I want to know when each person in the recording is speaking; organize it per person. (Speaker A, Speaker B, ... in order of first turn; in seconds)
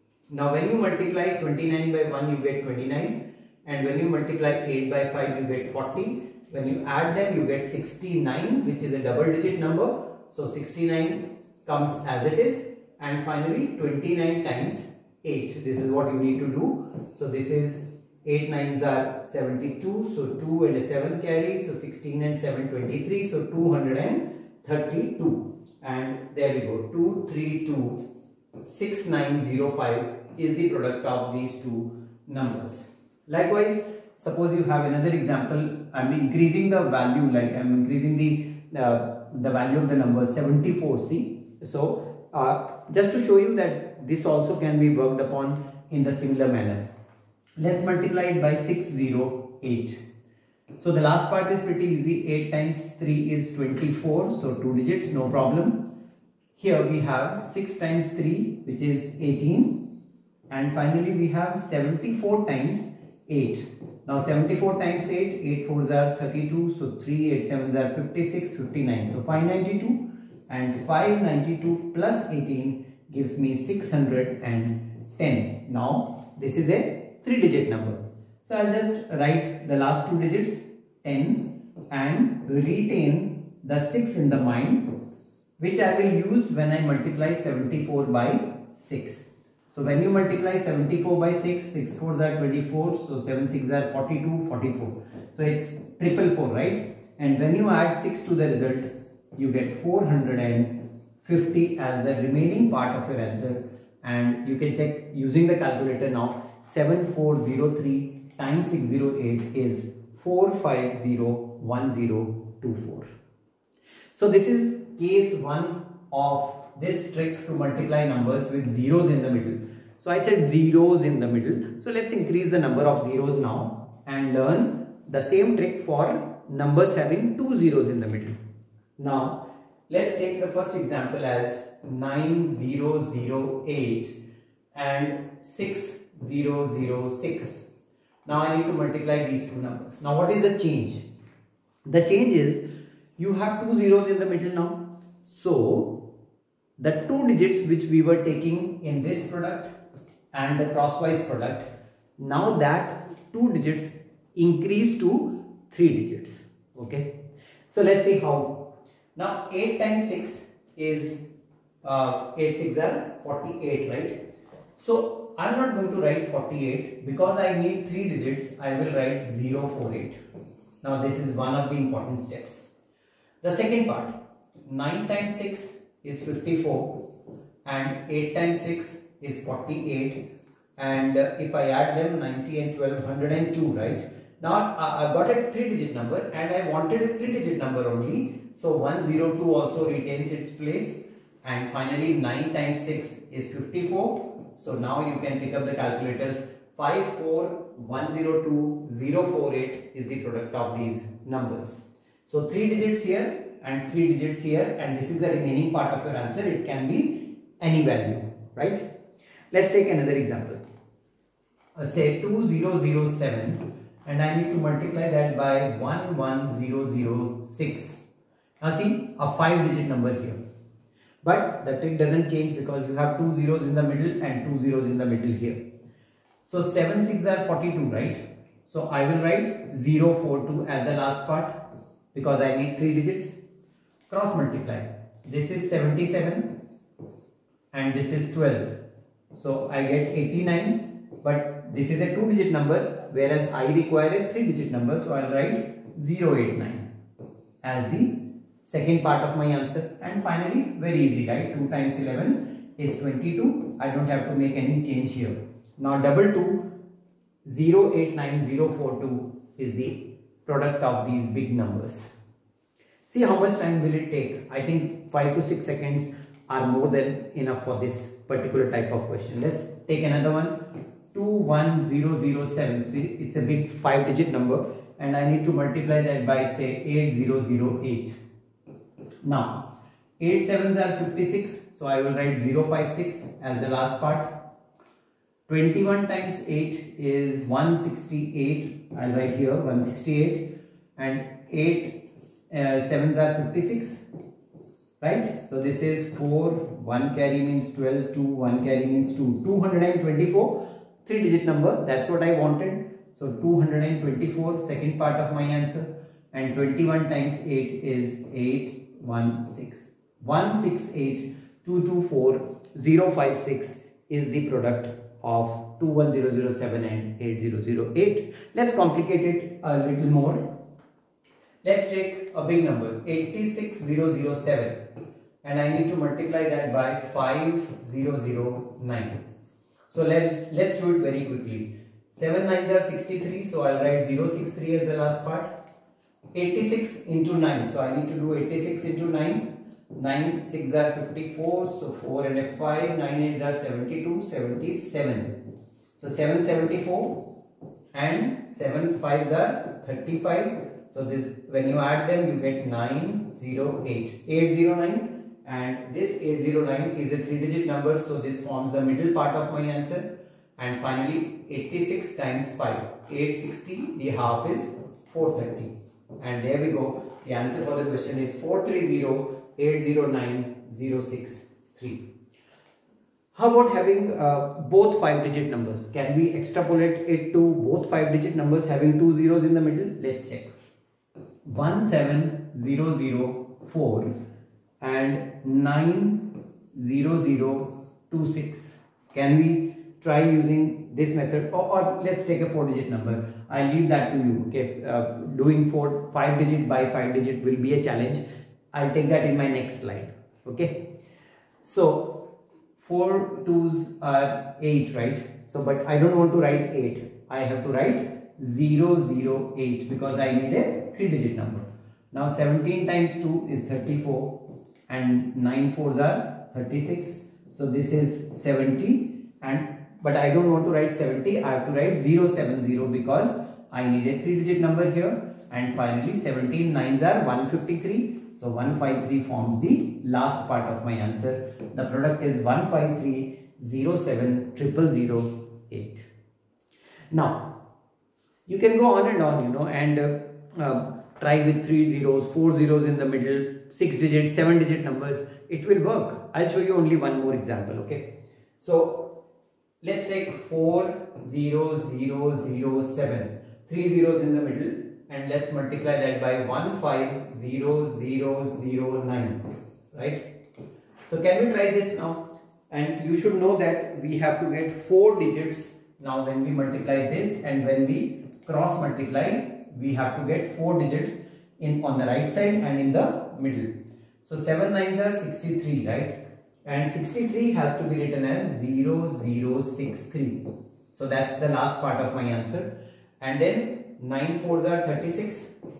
Speaker A: 0.3-28.0, 28.6-46.8, 47.6-50.0, 50.8-55.9, 56.5-59.9, 60.5-85.0, 85.6-113.1, 114.1-128.4, 129.0-134.1, 134.7-137.7, 138.2-141.0, 141.8-142.6, 143.2-146.0, 146.8-149.7, 150.3-151.7, 152.2-157.1, 157.7-161.2, 161.8-164.2, 164.8-170.2, 170.8-172.7, 173.4-177.0, 177.6-180.2, 180.8-208.8, 209.5-210.6, 211.8-218.0, 218.6-220.4, 221.2-225.6, 226.4-231.6, 232.1-233.4, 234.1-236.5, 237.7-238.7, 239.3-246.8, 247.6-256.7, 257.4-262.1, 263.1-270.6, 271.1-278.1, 279.2-279.6, 280.2-284.3, 285.5-294.0, 295.0-320.4, 321.6-324.8, 325.4-329.2, 329.9-335.5, 336.3-345.4, 346.0-347.2, 347.9-372.0, 373.3-380.5, 381.4-384.1, 384.8-400.8, 401.6-402.3, 402.8-436.1, 437.1-437.5, 438.5-449.1, 449.8-460.3, 461.1-473.7, 474.2-485.5